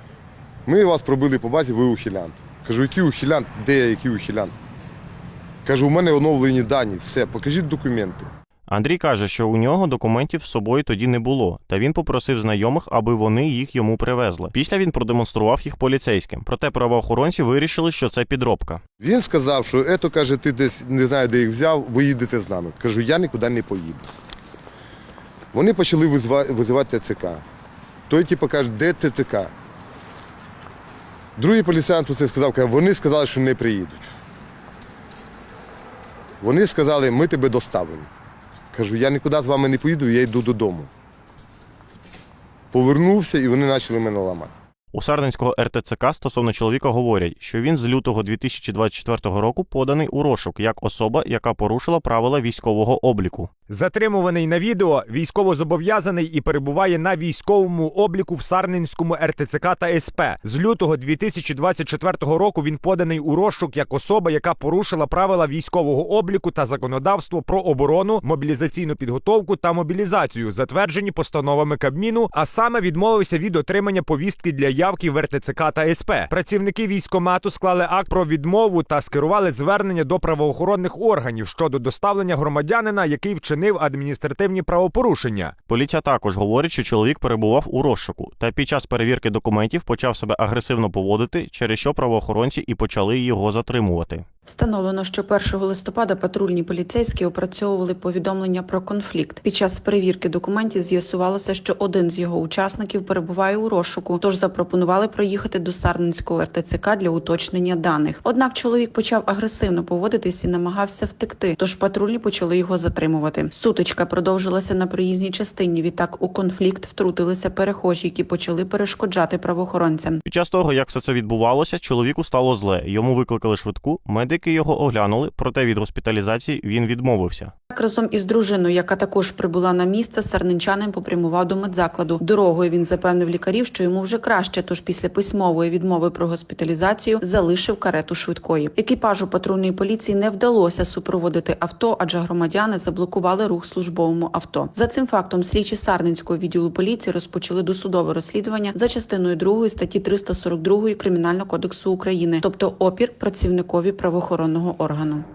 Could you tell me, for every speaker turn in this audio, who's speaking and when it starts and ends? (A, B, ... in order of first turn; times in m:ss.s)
0:00.7-0:04.5 A
0:05.6-0:08.3 A
0:08.7-0:18.8 B
0:19.0-0:24.1 A
0:25.5-0:27.4 A
0:28.1-0:29.5 A
0:31.4-0:34.1 A
0:36.4-0:38.1 A
0:38.7-0:40.9 A
0:42.7-0:44.5 A
0:44.9-0:53.5 B
0:53.7-1:25.5 C
1:25.7-1:34.2 B
1:34.5-2:00.2 D
2:00.2-2:07.5 B
2:07.7-2:35.2 D